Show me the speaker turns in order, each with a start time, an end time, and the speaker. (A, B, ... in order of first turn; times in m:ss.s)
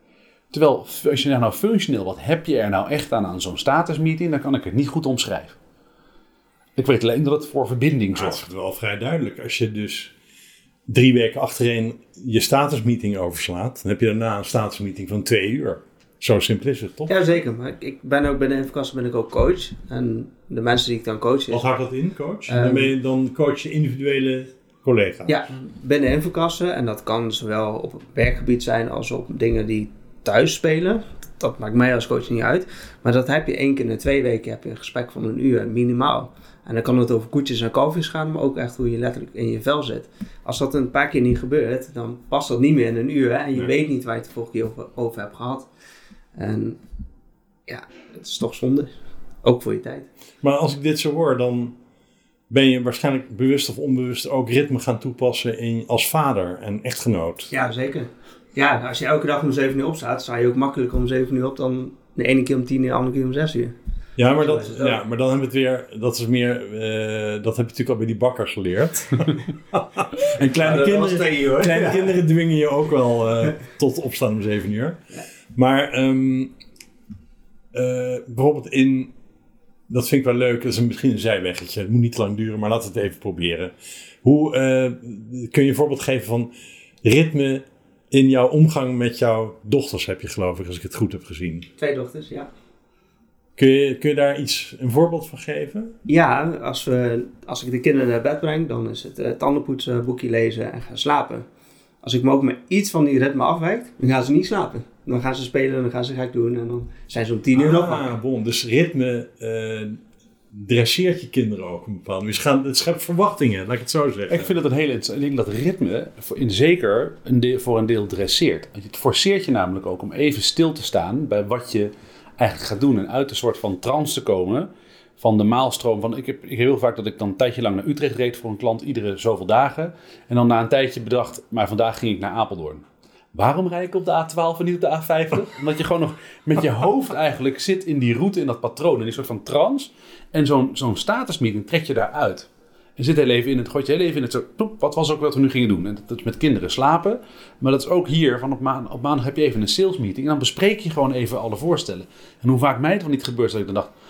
0:00.5-0:05.6 A
0:06.8-0:08.4 A
0:08.1-0:10.1 B
0:10.9-0:17.1 B
0:17.1-0:21.6 C
0:21.5-0:25.4 B
0:22.5-0:22.9 C
0:25.3-0:45.7 C
0:46.4-0:46.8 C
0:47.7-0:50.1 C
0:50.4-0:51.8 B
0:52.5-0:57.5 B
0:57.5-1:03.8 C
1:04.2-1:15.0 B
1:04.3-1:05.0 C
1:10.4-1:12.2 C
1:15.5-1:16.5 B
1:17.7-1:19.1 B
1:19.9-1:31.7 B
1:31.8-1:32.5 C
1:33.6-1:35.9 B
1:36.1-1:41.5 C
1:42.0-1:48.1 C
1:47.6-1:50.0 B
1:50.5-1:54.5 B
1:54.3-2:33.9 A